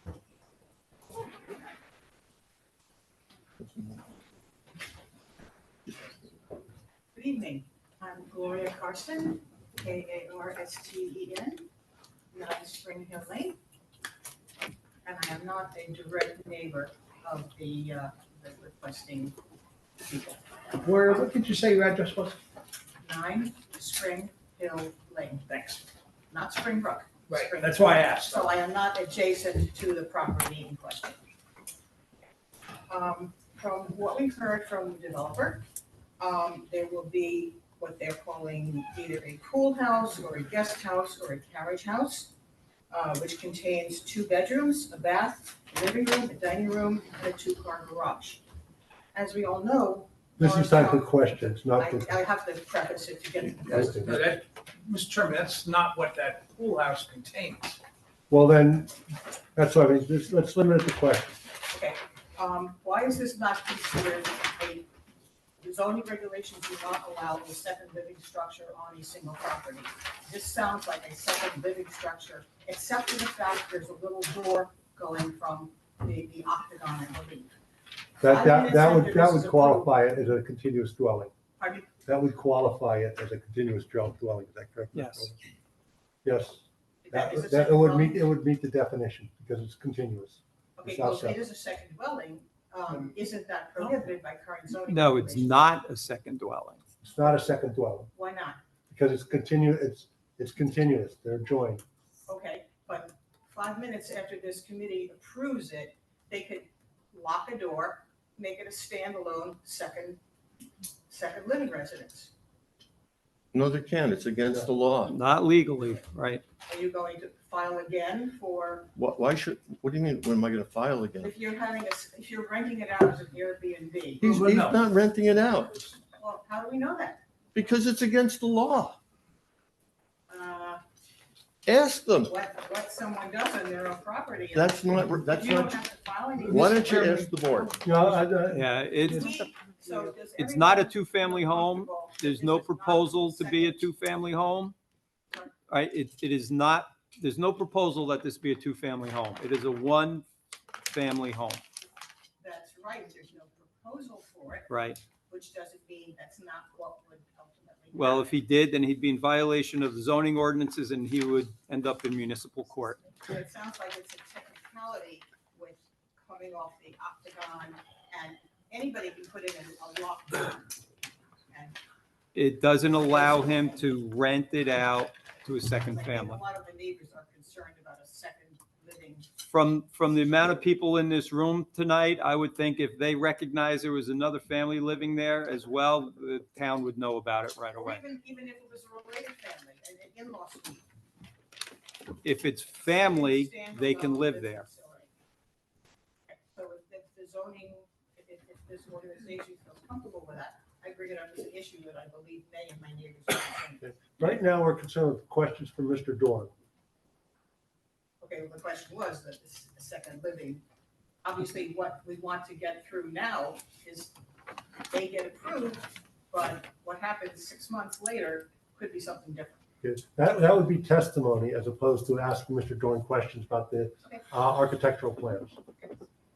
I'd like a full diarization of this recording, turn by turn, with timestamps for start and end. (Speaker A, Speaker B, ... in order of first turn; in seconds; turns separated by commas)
Speaker A: 3.6-4.0, Speaker B: 7.1-11.7, Speaker B: 12.3-13.6, Speaker B: 15.0-19.4, Speaker B: 20.0-20.4, Speaker C: 20.8-22.4, Speaker B: 23.0-25.4, Speaker C: 25.5-25.8, Speaker B: 26.3-31.2, Speaker C: 27.3-28.5, Speaker B: 32.9-35.6, Speaker B: 36.2-42.3, Speaker B: 42.9-48.4, Speaker B: 49.1-54.2, Speaker D: 50.4-52.1, Speaker D: 53.7-54.3, Speaker C: 53.9-57.8, Speaker D: 58.3-59.0, Speaker D: 59.5-61.4, Speaker B: 61.7-64.9, Speaker B: 65.6-77.5, Speaker D: 78.2-81.3, Speaker B: 78.2-79.9, Speaker B: 81.6-81.9, Speaker D: 82.0-85.4, Speaker E: 84.9-85.3, Speaker D: 86.2-91.4, Speaker B: 87.0-88.2, Speaker B: 90.8-95.6, Speaker E: 94.9-96.8, Speaker D: 97.0-98.1, Speaker B: 98.1-98.6, Speaker D: 98.9-101.8, Speaker B: 102.2-110.2, Speaker B: 111.1-112.3, Speaker A: 113.5-115.2, Speaker E: 115.0-116.4, Speaker B: 116.7-118.9, Speaker A: 118.9-121.3, Speaker B: 121.2-124.3, Speaker A: 124.2-125.9, Speaker C: 124.3-124.8, Speaker B: 126.2-127.2, Speaker A: 127.5-129.0, Speaker B: 130.3-130.8, Speaker A: 131.7-132.3, Speaker B: 132.2-143.9, Speaker A: 134.5-135.8, Speaker A: 136.4-137.8, Speaker D: 137.8-139.3, Speaker E: 138.5-144.7, Speaker E: 145.7-150.2, Speaker E: 150.8-151.6, Speaker B: 152.4-154.7, Speaker E: 154.7-155.0, Speaker B: 155.3-158.4, Speaker E: 157.9-163.0, Speaker B: 163.0-170.6, Speaker B: 171.5-171.8, Speaker E: 172.3-176.4, Speaker B: 173.0-173.8, Speaker B: 175.9-179.3, Speaker E: 179.5-188.0, Speaker B: 187.7-190.8, Speaker E: 192.2-194.7, Speaker B: 192.9-195.1, Speaker B: 196.3-203.9, Speaker D: 203.8-206.5, Speaker B: 208.2-210.6, Speaker B: 211.2-214.1, Speaker B: 214.9-219.6, Speaker D: 219.8-225.6